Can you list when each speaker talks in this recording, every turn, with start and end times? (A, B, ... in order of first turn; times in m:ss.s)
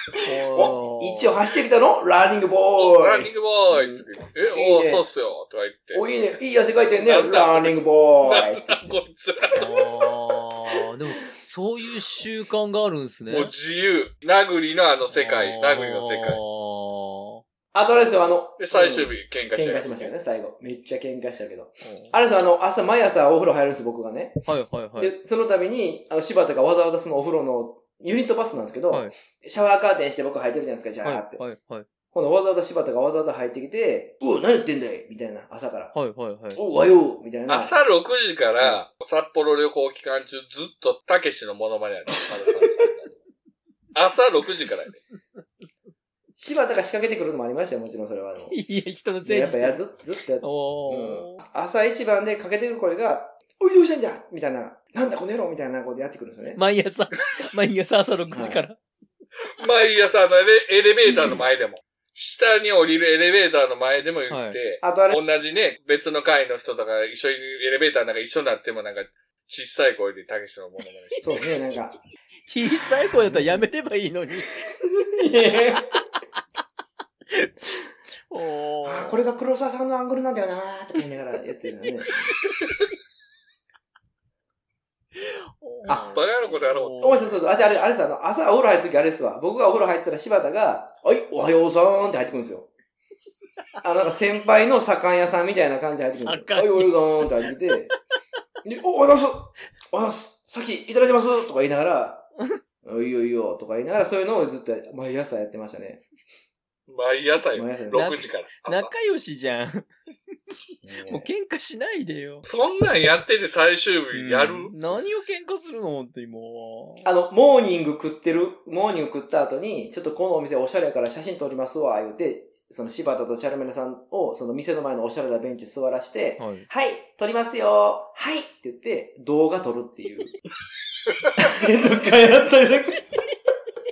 0:00.2-0:01.3 A
0:00.5-0:05.0 B
0:02.8-0:06.1 C
0:05.9-0:08.8 B
0:06.9-0:09.7 C
0:09.5-0:13.5 A
0:13.3-0:16.4 C
0:15.1-0:17.4 A
0:17.7-0:31.4 B
0:18.6-0:20.1 C
0:21.8-0:22.2 A
0:24.4-0:25.1 A
0:31.0-0:31.8 A
0:32.1-0:36.0 B
0:35.9-0:36.6 A
0:36.5-0:37.7 B
0:37.5-0:43.1 C
0:43.9-0:45.0 C
0:46.4-0:48.6 B
0:48.5-0:49.8 A
0:49.2-0:56.6 B
0:50.4-0:51.4 A
0:56.5-0:58.8 A
0:58.3-0:58.6 B
0:59.6-1:11.6 C
1:04.3-1:04.6 A
1:04.8-1:05.2 B
1:11.2-1:12.0 B
1:12.5-1:14.6 A
1:13.3-1:13.7 B
1:15.0-1:16.0 B
1:18.3-1:19.2 A
1:18.8-1:22.3 B
1:25.2-1:27.3 A
1:25.8-1:26.2 B
1:25.9-1:27.4 C
1:27.0-1:32.7 B
1:33.8-1:37.9 B
1:36.1-1:37.2 A
1:38.6-1:42.2 B
1:42.8-1:46.0 B
1:46.9-1:48.9 C
1:47.5-1:48.2 B
1:47.9-1:49.9 A
1:50.8-1:51.3 B
1:51.0-1:52.4 A
1:52.4-1:54.7 C
1:54.1-1:57.1 A
1:57.0-2:10.4 B
2:06.4-2:06.7 A
2:11.4-2:13.2 B